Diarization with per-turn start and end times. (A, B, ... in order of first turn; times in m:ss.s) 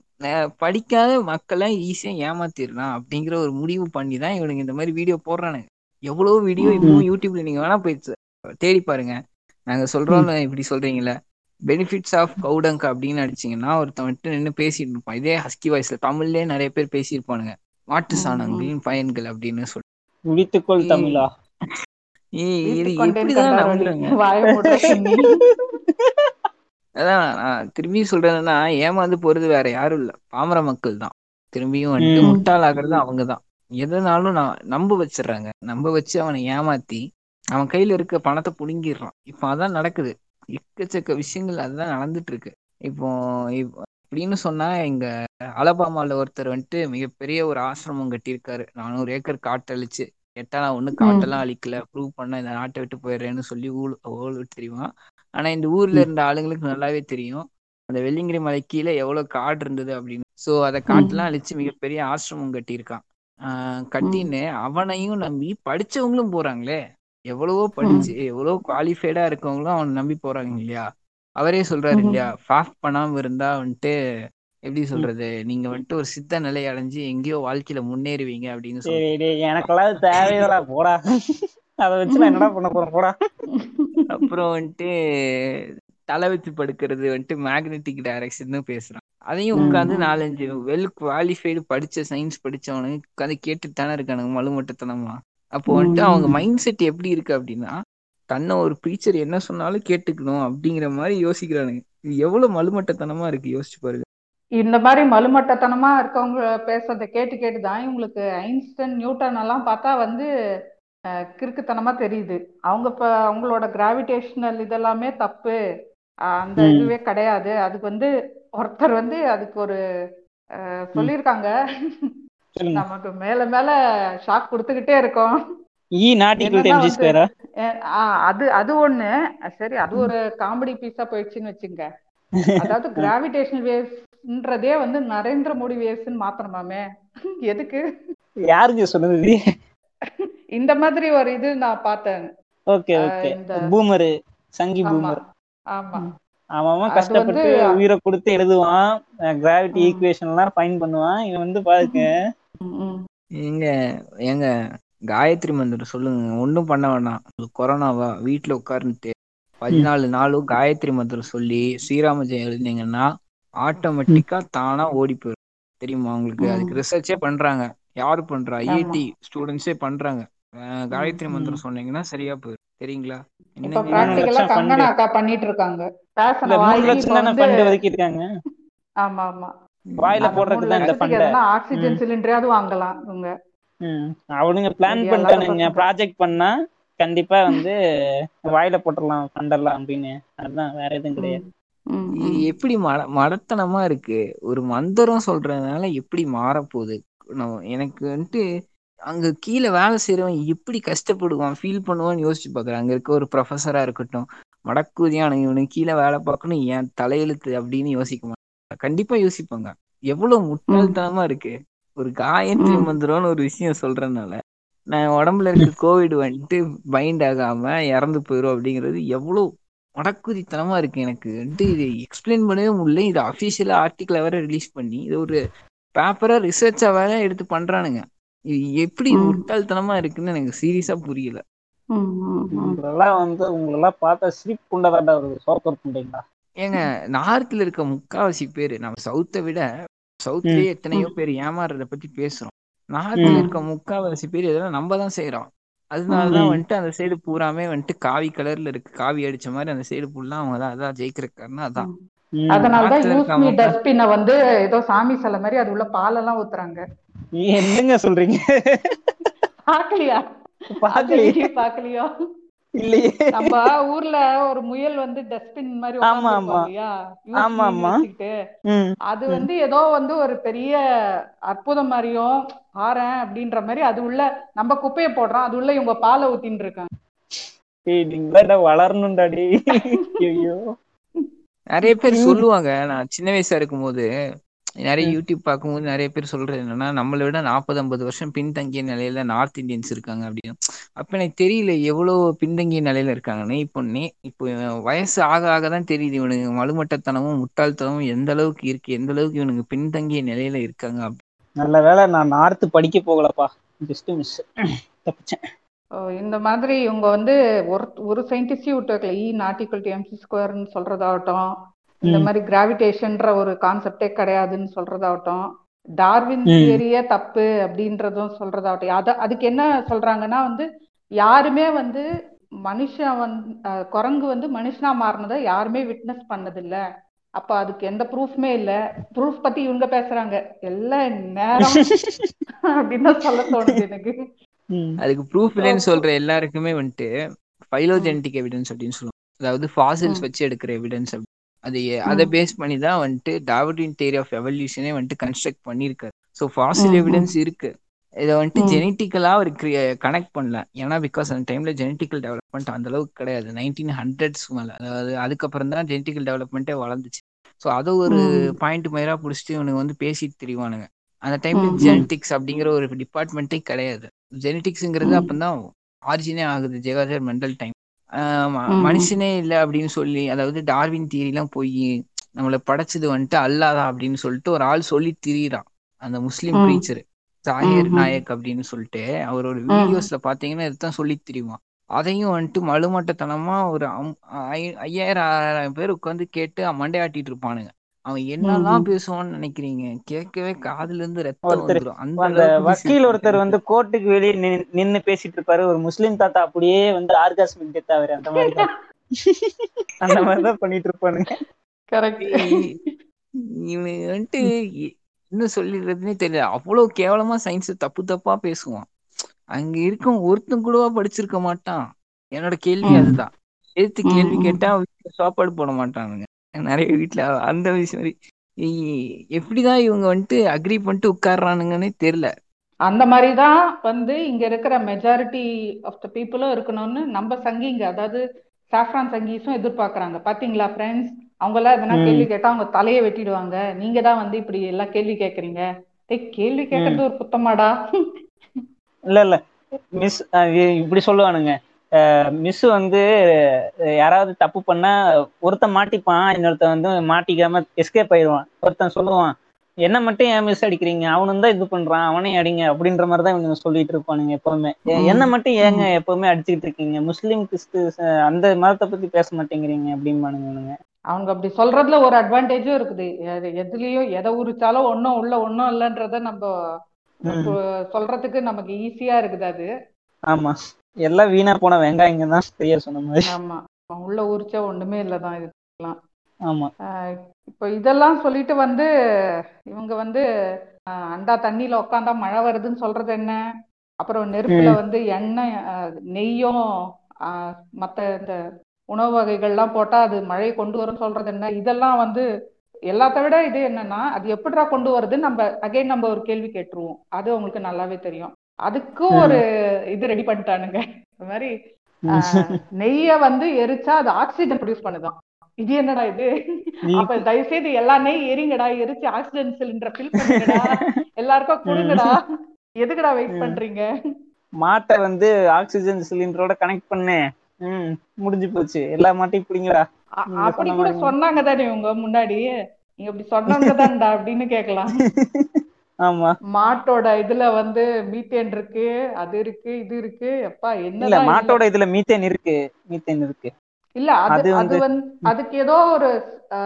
0:00.3-0:09.1 A
0:06.6-0:06.9 B
0:09.7-0:11.1 A
0:11.7-0:19.8 A
0:18.2-0:18.7 B
0:20.3-0:21.3 C
0:20.8-0:21.2 A
0:22.4-0:24.1 A
0:22.7-0:25.4 B
0:24.6-0:25.2 C
0:27.0-0:37.0 A
0:32.0-0:32.3 C
0:37.5-0:45.1 A
0:45.6-1:06.8 A
1:00.9-1:01.2 B
1:07.3-1:10.8 A
1:11.4-1:13.9 A
1:14.7-1:19.0 A
1:18.9-1:21.0 C
1:20.1-1:20.4 A
1:21.8-1:23.1 C
1:22.1-1:22.4 B
1:23.6-1:24.0 B
1:24.1-1:24.9 A
1:26.1-1:37.7 A
1:29.6-1:30.0 B
1:29.6-1:29.9 C
1:35.8-1:36.3 B
1:38.3-1:44.0 A
1:44.6-1:50.3 B
1:51.4-1:55.5 B
1:56.4-1:58.1 B
1:56.6-1:56.9 C
1:58.6-1:59.8 B
2:00.9-2:01.5 B
2:02.6-2:02.8 C
2:02.8-2:03.7 B
2:04.3-2:05.3 B
2:06.0-2:07.2 C
2:06.4-2:07.1 B
2:08.3-2:11.8 B
2:12.5-2:13.1 C
2:12.6-2:16.8 B
2:17.5-2:17.8 B
2:18.5-2:19.4 C
2:20.6-2:22.2 B
2:22.7-2:25.2 C
2:23.0-2:23.6 B
2:24.9-2:25.2 B
2:25.8-2:26.0 B
2:26.0-2:28.8 C
2:26.9-2:27.5 B
2:29.4-2:32.1 C
2:29.8-2:30.0 B
2:32.7-2:33.0 B
2:35.1-2:43.1 A
2:43.6-2:54.2 A
2:46.4-2:46.7 B
2:48.7-2:49.0 B
2:53.7-2:57.5 B
2:54.0-2:54.9 C
2:56.5-2:58.2 C
2:59.0-2:59.5 B
2:59.9-3:00.4 A
3:00.0-3:02.0 C
3:00.2-3:03.3 B
3:03.8-3:07.7 C
3:04.9-3:05.8 B
3:08.5-3:11.4 C
3:11.9-3:12.4 B
3:12.2-3:18.4 A
3:19.1-3:34.4 A
3:34.9-3:39.4 A
3:40.0-3:45.4 A
3:46.0-3:48.0 A
3:48.8-3:51.4 A
3:49.2-3:49.4 B
3:51.9-3:52.8 B
3:52.5-3:56.2 C
3:56.6-3:59.6 A
4:00.2-4:11.9 A
4:03.2-4:03.5 B
4:06.1-4:06.4 B
4:12.4-4:12.8 C
4:12.5-4:16.8 B
4:12.7-4:13.7 A
4:17.4-4:18.4 C
4:19.7-4:20.2 B
4:20.8-4:21.4 C
4:20.9-4:22.0 B
4:22.8-4:23.5 C
4:23.3-4:28.3 B
4:26.0-4:26.7 C
4:27.4-4:27.9 C
4:28.7-4:29.5 C
4:29.1-4:30.8 B
4:31.5-4:32.3 B
4:32.8-4:36.9 B
4:37.3-4:40.6 C
4:39.7-4:40.0 B
4:41.7-4:44.0 A
4:42.2-4:42.4 C
4:44.8-5:01.2 A
5:01.6-5:04.4 C
5:05.0-5:05.4 C
5:06.2-5:11.4 B
5:12.0-5:15.4 B
5:16.0-5:20.6 B
5:16.5-5:16.8 C
5:21.2-5:22.0 B
5:22.7-5:23.4 B
5:23.9-5:26.8 B
5:27.4-5:31.8 B
5:31.8-5:32.3 C
5:32.8-5:34.1 B
5:33.4-5:33.7 C
5:35.0-5:37.1 A
5:37.7-5:47.7 A
5:46.8-5:47.3 B
5:48.2-6:05.5 A
6:01.6-6:02.0 B
6:06.1-6:07.7 A
6:08.4-6:11.8 A
6:08.8-6:09.1 B
6:12.4-6:33.6 A
6:17.7-6:18.1 B
6:28.5-6:28.8 B
6:31.5-6:38.7 C
6:39.3-6:41.3 C
6:41.9-6:42.6 B
6:42.2-6:42.7 A
6:43.6-6:48.8 A
6:49.5-6:51.8 A
6:52.4-6:58.1 A
6:54.1-6:54.6 B
6:59.4-7:02.3 A
7:02.9-7:08.2 B
7:08.7-7:17.7 B
7:11.9-7:12.2 C
7:19.1-7:19.4 C
7:20.0-7:21.5 C
7:22.4-7:23.0 C
7:24.0-7:24.9 C
7:25.4-7:29.3 C
7:29.8-7:40.7 C
7:35.0-7:35.9 B
7:41.1-7:46.5 B
7:47.3-7:47.5 C
7:47.3-7:49.7 B
7:51.0-7:53.2 C
7:53.3-7:56.0 B
7:56.5-7:56.7 C
7:57.5-7:58.9 B
7:59.7-8:00.2 B
8:01.1-8:03.4 B
8:04.0-8:05.4 B
8:04.5-8:04.8 C
8:06.1-8:06.6 B
8:07.8-8:08.4 B
8:08.9-8:12.2 B
8:12.9-8:19.4 B
8:19.1-8:19.4 C
8:20.0-8:21.5 B
8:22.1-8:22.6 C
8:22.3-8:26.3 B
8:26.9-8:27.2 C
8:27.0-8:32.2 B
8:30.2-8:30.6 C
8:31.7-8:32.1 C
8:32.8-8:33.8 B
8:34.6-8:39.8 C
8:40.2-8:42.5 B
8:40.4-8:41.1 C
8:43.0-8:44.9 B
8:45.2-8:45.5 C
8:46.0-8:46.3 C
8:46.5-8:51.6 B
8:51.0-8:53.5 C
8:54.0-8:56.1 B
8:54.3-8:54.8 C